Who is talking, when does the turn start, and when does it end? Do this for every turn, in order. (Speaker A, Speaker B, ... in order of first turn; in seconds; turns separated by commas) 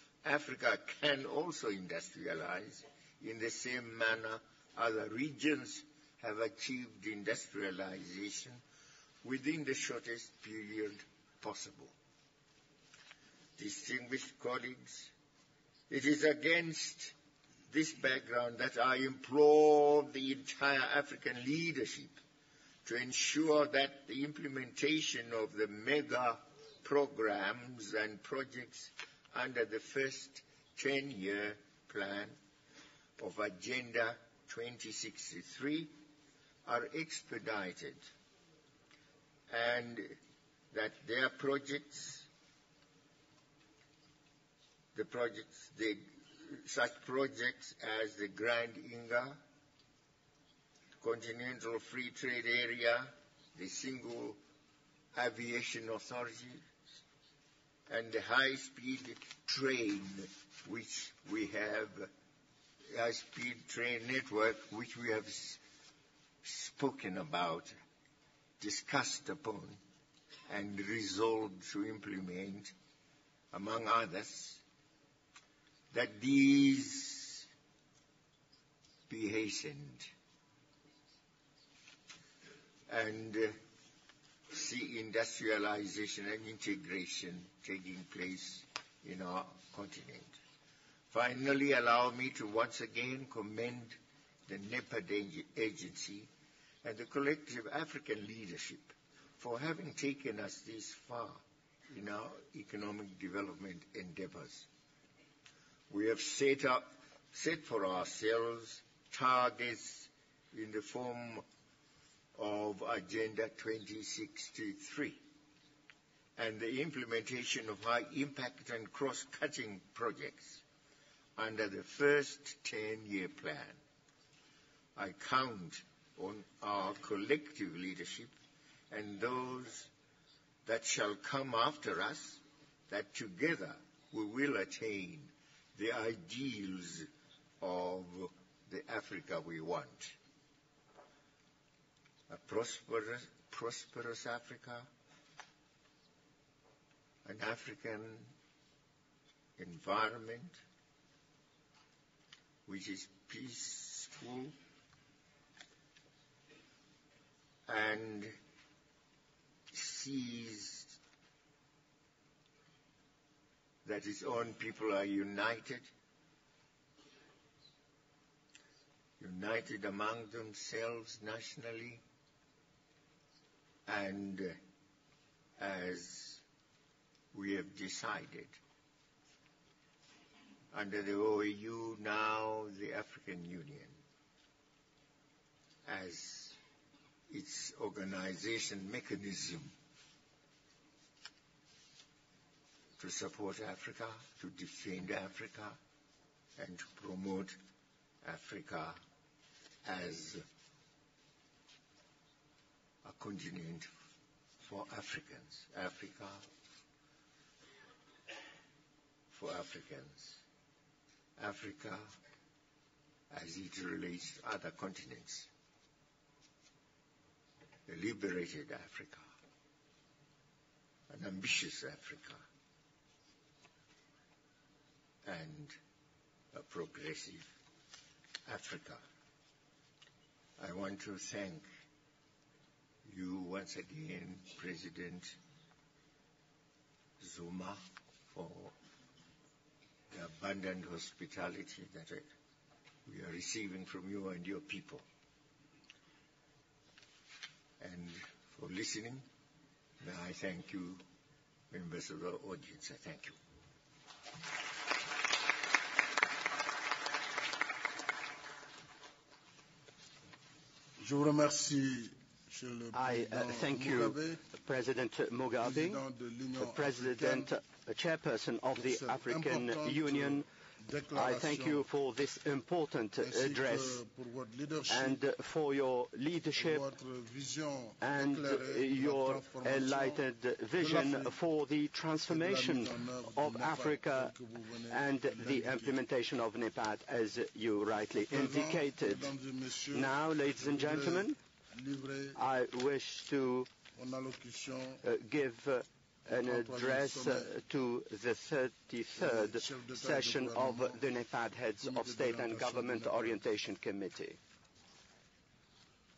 Speaker A: 0.2-8.6, Speaker A: 9.2-11.9, Speaker A: 13.6-15.1, Speaker A: 15.9-17.1, Speaker A: 17.7-22.2, Speaker A: 22.9-32.4, Speaker A: 33.2-36.0, Speaker A: 36.6-38.0, Speaker A: 39.5-40.2, Speaker A: 40.7-42.3, Speaker A: 45.0-49.4, Speaker A: 51.0-54.4, Speaker A: 55.1-56.6, Speaker A: 57.9-62.1, Speaker A: 62.9-65.6, Speaker A: 66.4-67.7, Speaker A: 68.6-69.8, Speaker A: 70.5-72.7, Speaker A: 73.5-74.6, Speaker A: 75.9-77.5, Speaker A: 79.1-80.1, Speaker A: 82.9-83.5, Speaker A: 84.5-90.3, Speaker A: 91.1-94.0, Speaker A: 94.5-96.3, Speaker A: 96.8-104.7, Speaker A: 105.9-111.4, Speaker A: 112.3-115.2, Speaker A: 116.4-120.6, Speaker A: 121.4-123.8, Speaker A: 125.0-128.3, Speaker A: 128.9-129.9, Speaker A: 130.7-137.1, Speaker A: 137.6-140.2, Speaker A: 142.3-144.9, Speaker A: 147.2-148.3, Speaker A: 149.6-150.6, Speaker A: 152.7-154.6, Speaker A: 157.7-158.3, Speaker A: 159.7-161.0, Speaker A: 163.8-165.9, Speaker A: 169.2-172.0, Speaker A: 173.9-174.6, Speaker A: 175.6-176.4, Speaker A: 177.3-178.6, Speaker A: 180.7-183.9, Speaker A: 185.8-186.6, Speaker A: 187.3-189.7, Speaker A: 193.0-195.8, Speaker A: 196.6-197.6, Speaker A: 198.2-199.0, Speaker A: 199.8-200.4, Speaker A: 203.0-203.9, Speaker A: 204.6-206.5, Speaker A: 209.3-210.4, Speaker A: 211.4-212.1, Speaker A: 213.3-215.5, Speaker A: 217.9-219.3, Speaker A: 221.1-222.4, Speaker A: 225.2-225.8, Speaker A: 226.5-227.5, Speaker A: 228.5-229.0, Speaker A: 230.6-231.7, Speaker A: 233.1-235.4, Speaker A: 237.2-237.8, Speaker A: 238.3-238.7, Speaker A: 240.1-242.3, Speaker A: 243.1-245.1, Speaker A: 247.8-249.2, Speaker A: 250.0-251.0, Speaker A: 251.7-253.4, Speaker B: 261.0-264.4, Speaker C: 262.9-266.0, Speaker B: 265.6-267.5, Speaker C: 266.6-270.5, Speaker B: 268.8-271.9, Speaker C: 271.1-274.0, Speaker B: 273.2-275.2, Speaker C: 274.9-276.9, Speaker B: 276.6-280.2, Speaker C: 278.0-284.3, Speaker B: 280.8-281.4, Speaker B: 282.3-286.0, Speaker C: 284.9-289.3, Speaker B: 288.2-292.4, Speaker C: 289.9-291.4, Speaker C: 292.4-293.7, Speaker B: 294.0-295.0, Speaker C: 295.0-304.4, Speaker B: 296.3-297.5, Speaker B: 299.2-301.0, Speaker B: 301.8-303.4